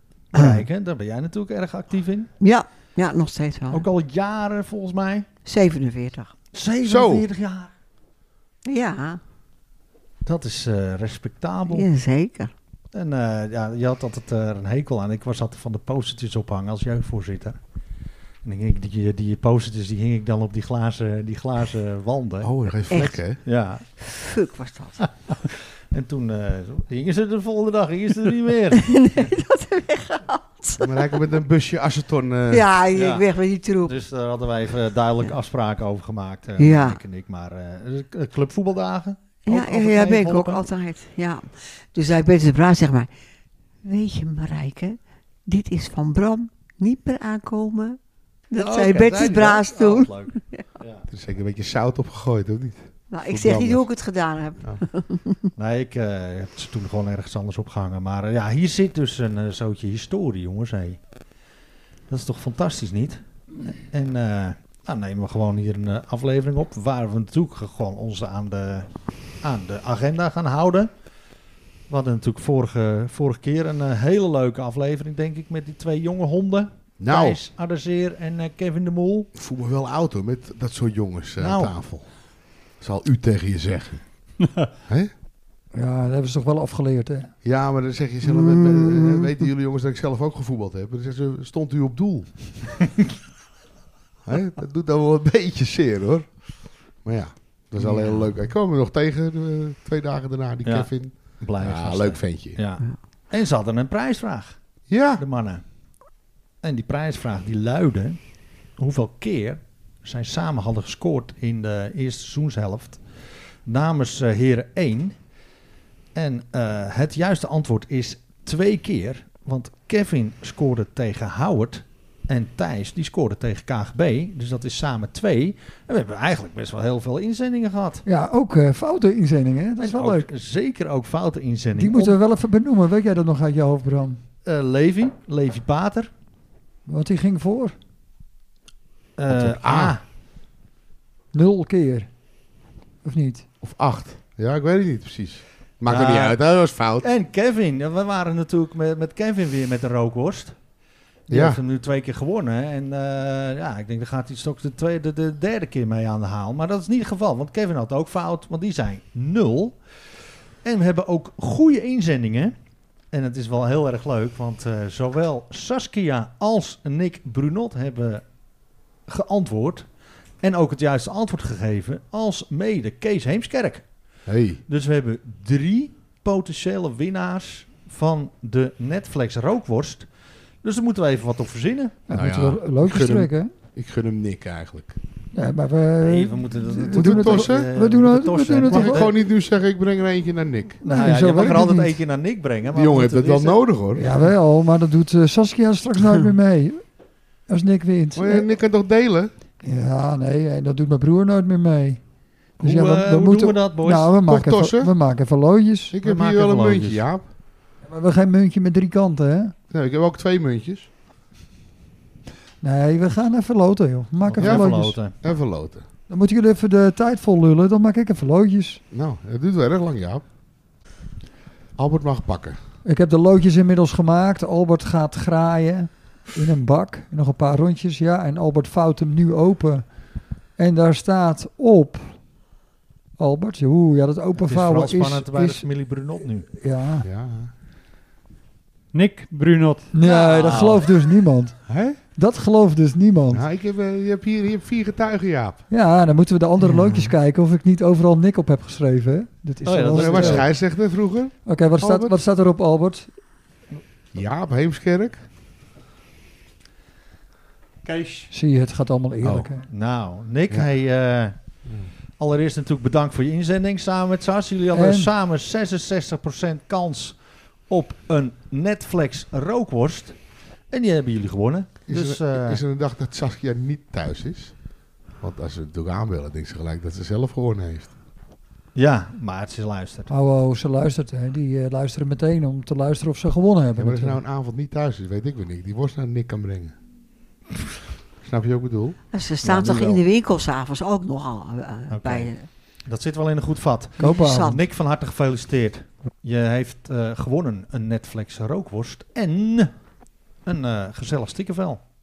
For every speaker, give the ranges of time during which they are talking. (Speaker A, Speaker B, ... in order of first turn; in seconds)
Speaker A: 0.3-2.3, 3.7-5.3, 6.5-7.7, 10.2-11.9, 12.9-17.6, 18.4-22.5, 23.4-23.9, 25.0-28.9, 32.9-33.3, 33.9-40.6, 48.5-51.0, 55.6-61.0, 62.1-63.2, 63.9-68.9, 69.4-70.9, 71.9-79.3, 81.4-81.7, 100.7-104.6, 105.2-105.6, 106.6-108.2, 108.8-113.0, 113.7-115.2, 116.2-128.0, 129.8-132.2, 134.5-136.1, 139.2-140.0, 145.9-146.4, 147.0-150.6, 151.3-159.8, 160.6-162.5, 163.1-168.2, 169.1-169.9, 170.4-173.8, 174.7-180.1, 180.6-182.0, 186.0-189.1, 190.8-193.6, 202.6-204.1, 206.0-207.1, 214.3-215.2, 234.4-236.5, 240.0-240.8, 259.7-261.4, 262.2-270.2, 270.7-272.6, 278.8-280.1, 289.4-290.0, 291.9-292.3, 292.9-299.7, 300.5-301.8
Speaker B: 0.3-0.6, 2.4-3.9, 5.5-6.3, 8.7-9.2, 11.7-12.5, 22.9-23.2, 24.0-25.0, 28.8-30.9, 32.5-34.0, 36.6-37.0, 39.5-43.1, 43.8-48.0, 48.5-50.7, 53.1-55.4, 88.2-89.3, 289.1-292.5, 294.0-294.6
Speaker C: 6.8-7.3, 22.4-23.4, 30.8-32.6, 51.1-53.9, 77.0-77.4, 79.3-82.1, 82.8-84.0, 87.4-92.6, 94.3-102.6, 104.9-105.2, 139.3-140.0, 143.6-147.1, 151.3-151.6, 174.3-174.6, 182.1-185.0, 186.8-187.7, 188.6-190.8, 192.7-194.1, 198.2-199.3, 204.2-204.9, 205.9-207.2, 209.7-210.9, 214.4-215.8, 218.9-220.2, 221.8-222.6, 237.0-237.5, 241.7-242.0, 243.3-245.6, 249.9-252.2, 254.1-255.2, 259.2-259.5, 271.9-274.6, 275.2-277.9, 283.8-286.7, 288.2-289.0
Speaker D: 85.7-87.3, 128.1-130.3, 131.8-134.2, 136.9-137.8, 141.3-142.1, 143.0-143.5, 182.1-183.5, 185.3-189.1, 190.8-192.0, 194.0-196.8, 197.5-198.5, 199.6-202.0, 202.6-206.0, 207.8-209.5, 212.6-215.0, 216.1-218.8, 222.8-229.9, 230.6-232.2, 233.2-235.7, 236.6-237.1, 239.9-243.4, 245.7-250.5, 251.5-253.1, 258.3-259.6, 264.7-265.1, 280.1-284.2, 294.0-294.6
Speaker E: 238.9-239.9, 249.7-250.4, 257.8-258.3